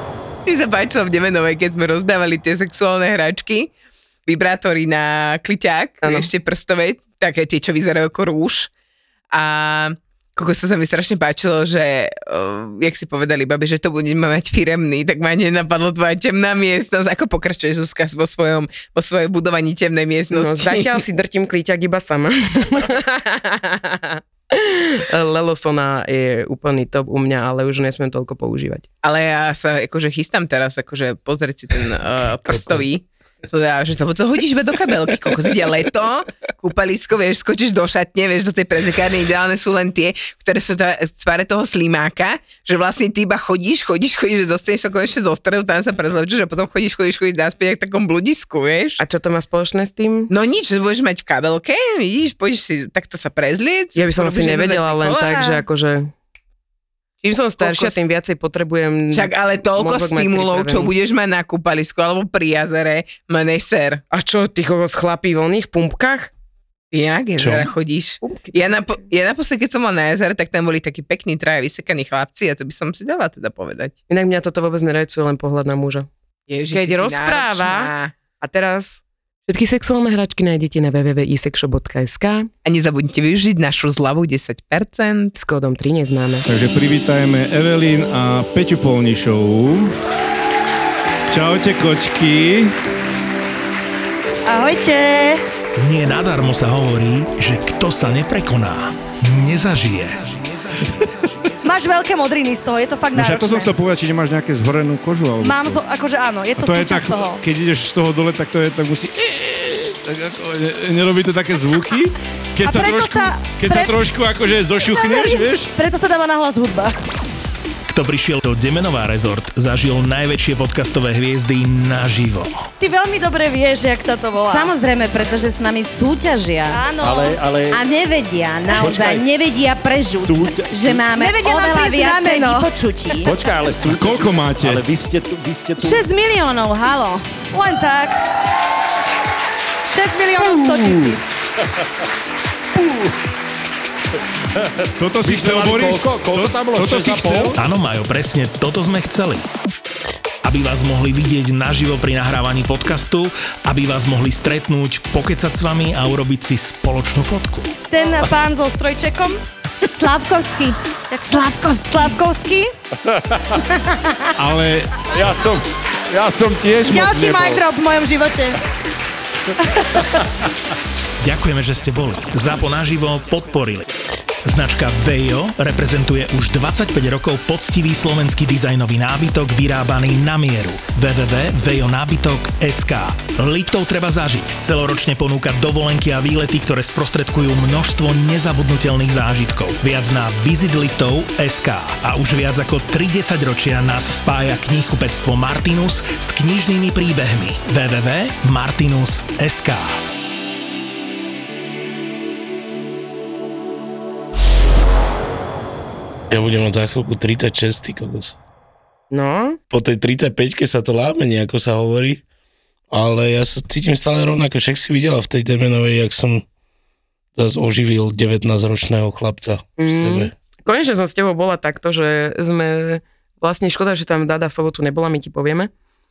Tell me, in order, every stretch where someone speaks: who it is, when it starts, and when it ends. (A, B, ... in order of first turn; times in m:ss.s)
0:00.5-0:03.7 A
0:04.3-0:08.7 A
0:06.0-0:06.3 B
0:09.3-0:21.0 A
0:20.3-0:28.9 B
0:29.0-0:49.0 A
0:32.5-0:32.8 C
0:49.0-0:50.3 B
0:50.3-0:55.6 A
0:54.0-0:56.1 B
0:57.2-1:00.9 B
0:57.6-0:58.0 A
0:59.1-1:04.0 A
1:04.1-1:06.3 B
1:06.9-1:14.0 A
1:07.4-1:07.7 C
1:08.2-1:09.1 B
1:14.1-1:16.1 B
1:16.5-1:18.1 A
1:16.7-1:22.5 B
1:22.6-1:25.4 A
1:25.4-1:26.5 B
1:26.5-1:29.9 D
1:31.3-1:32.8 D
1:34.5-1:35.4 E
1:35.8-1:40.2 F
1:41.6-1:43.7 E
1:43.1-1:45.8 D
1:45.4-1:47.4 E
1:46.6-1:55.7 D
1:52.6-1:54.0 E
1:54.8-1:57.0 E
1:57.9-2:02.6 F
2:02.8-2:04.8 E
2:04.4-2:07.2 G
2:06.7-2:07.4 E
2:07.0-2:07.8 H
2:07.7-2:13.3 G
2:08.7-2:11.1 H
2:11.2-2:13.3 E
2:13.2-2:16.0 H
2:13.8-2:14.9 D
2:15.8-2:17.2 G
2:15.8-2:16.2 E
2:17.4-2:18.2 E
2:19.9-2:21.3 E
2:25.0-2:27.6 D
2:25.2-2:27.6 H
2:27.6-2:29.5 F
2:30.4-2:37.8 F
2:37.9-2:39.4 E
2:40.0-2:42.1 G
2:41.1-2:42.7 E
2:44.4-2:45.0 D
2:45.2-2:47.6 H
2:46.8-2:47.6 D
2:46.9-2:48.6 E
2:51.2-2:53.9 F
2:54.4-3:20.0 F
3:26.3-3:28.4 C
3:29.1-3:29.6 B
3:29.7-3:32.2 C
3:32.9-3:36.4 C
3:37.4-3:40.3 C
3:39.8-3:45.7 B